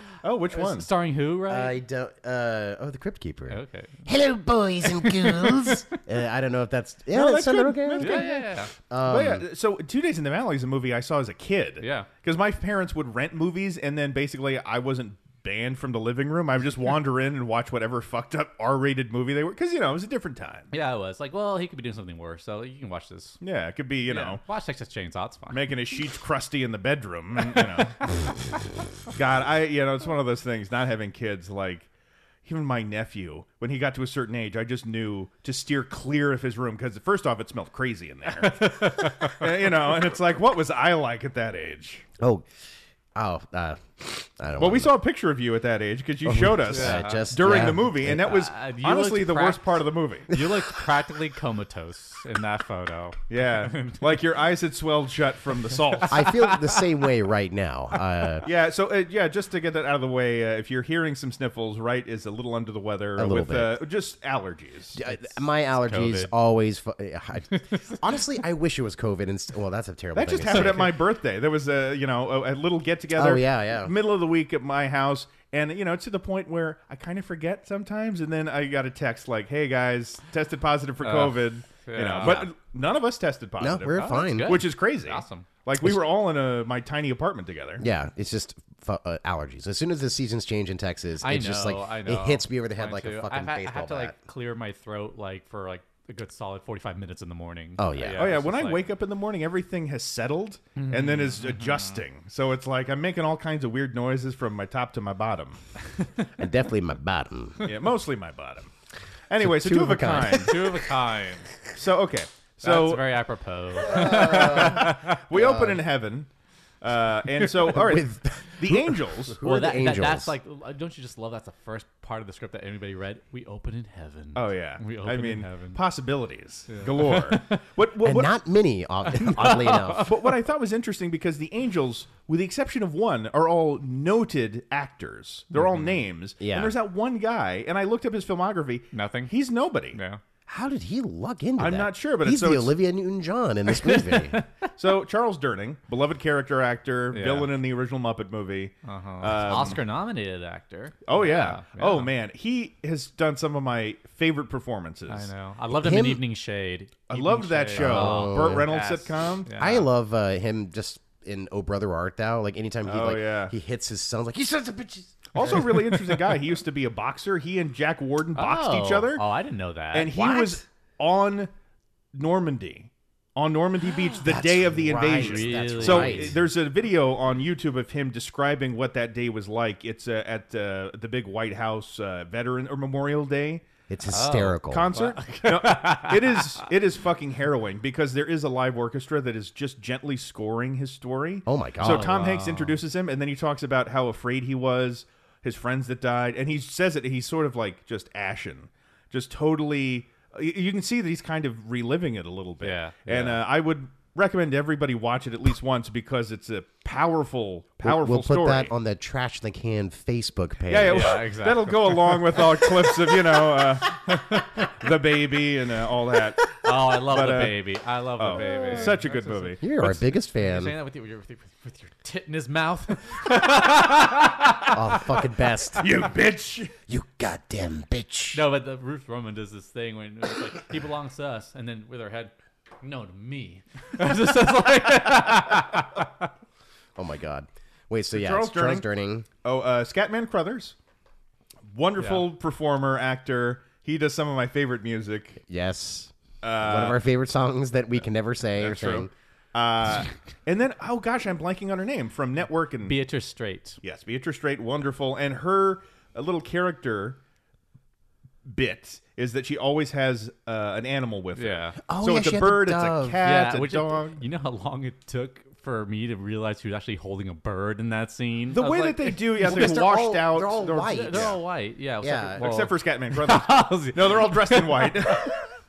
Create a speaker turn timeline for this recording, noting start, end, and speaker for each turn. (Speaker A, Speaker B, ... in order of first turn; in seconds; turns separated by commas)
Speaker A: 0.2-0.9, Speaker B: 0.5-1.8, Speaker C: 1.5-9.4, Speaker B: 3.5-4.0, Speaker B: 4.8-5.8, Speaker A: 7.1-8.3, Speaker B: 8.0-8.7, Speaker A: 9.0-20.7, Speaker B: 11.8-12.1, Speaker B: 20.7-23.4, Speaker A: 23.4-24.4, Speaker B: 24.1-25.6, Speaker A: 25.5-28.0, Speaker A: 29.1-31.9, Speaker A: 32.5-42.0, Speaker B: 38.4-39.5, Speaker C: 42.2-42.5, Speaker C: 43.1-44.9, Speaker A: 44.6-50.3, Speaker C: 46.2-48.4, Speaker B: 46.7-49.8, Speaker B: 50.3-54.2, Speaker A: 53.3-56.3, Speaker B: 56.1-56.9, Speaker C: 56.1-58.5, Speaker A: 58.4-65.0, Speaker C: 63.2-63.8, Speaker C: 65.0-71.0, Speaker B: 65.8-66.3, Speaker B: 67.5-68.0, Speaker A: 70.1-87.8, Speaker B: 70.5-70.9, Speaker C: 73.1-73.9, Speaker B: 81.0-82.5, Speaker C: 82.2-82.5, Speaker C: 83.6-84.7, Speaker B: 83.9-85.5, Speaker C: 87.8-94.1, Speaker B: 91.2-98.8, Speaker C: 97.8-98.3, Speaker A: 98.2-105.6, Speaker B: 100.8-102.0, Speaker C: 106.4-107.7, Speaker A: 107.6-108.7, Speaker A: 109.3-110.6, Speaker C: 109.4-110.8, Speaker B: 110.3-111.5, Speaker A: 111.8-113.0, Speaker B: 112.6-115.2, Speaker C: 113.8-115.8, Speaker A: 113.9-116.3, Speaker A: 116.8-119.4, Speaker C: 117.4-120.3, Speaker B: 119.4-125.8, Speaker A: 124.3-128.3, Speaker B: 126.7-127.6, Speaker C: 128.0-130.1, Speaker B: 129.1-130.2, Speaker A: 130.0-140.0, Speaker B: 135.5-136.0, Speaker C: 136.4-136.7, Speaker B: 138.9-139.3, Speaker B: 139.9-140.2, Speaker C: 140.5-144.4, Speaker A: 141.6-142.7, Speaker B: 143.7-144.5, Speaker A: 144.7-149.8, Speaker B: 147.1-147.5, Speaker B: 148.8-152.1, Speaker A: 151.1-155.3, Speaker B: 155.1-159.9, Speaker C: 155.8-156.2, Speaker A: 157.1-159.5, Speaker C: 157.7-158.7, Speaker C: 159.6-165.9, Speaker A: 162.8-163.5, Speaker A: 165.3-169.2, Speaker B: 168.4-170.4, Speaker A: 169.9-171.5, Speaker C: 170.2-170.5, Speaker A: 172.2-183.7, Speaker C: 174.2-176.4, Speaker B: 175.1-176.3, Speaker C: 183.9-184.9, Speaker B: 184.1-186.6, Speaker A: 184.7-208.7, Speaker C: 191.5-192.1, Speaker B: 191.8-192.8, Speaker B: 202.6-203.1, Speaker C: 207.8-211.2, Speaker A: 210.7-217.6, Speaker B: 210.8-212.9, Speaker B: 214.1-214.7, Speaker B: 216.5-225.2, Speaker A: 218.2-219.6, Speaker C: 219.6-220.7, Speaker C: 224.7-225.9, Speaker A: 225.8-226.7, Speaker C: 226.9-228.4, Speaker B: 228.3-236.3, Speaker C: 237.0-239.3, Speaker A: 238.1-238.8, Speaker A: 239.4-240.8, Speaker A: 241.7-245.4, Speaker C: 245.4-249.1, Speaker A: 246.4-247.0, Speaker A: 248.6-253.0, Speaker B: 252.8-253.8, Speaker A: 253.8-257.2, Speaker A: 258.4-264.2, Speaker B: 261.4-261.8, Speaker C: 261.9-263.2, Speaker B: 263.2-269.7, Speaker A: 268.5-271.4, Speaker C: 269.4-271.4, Speaker B: 270.8-275.4, Speaker C: 272.0-272.4, Speaker A: 272.4-275.4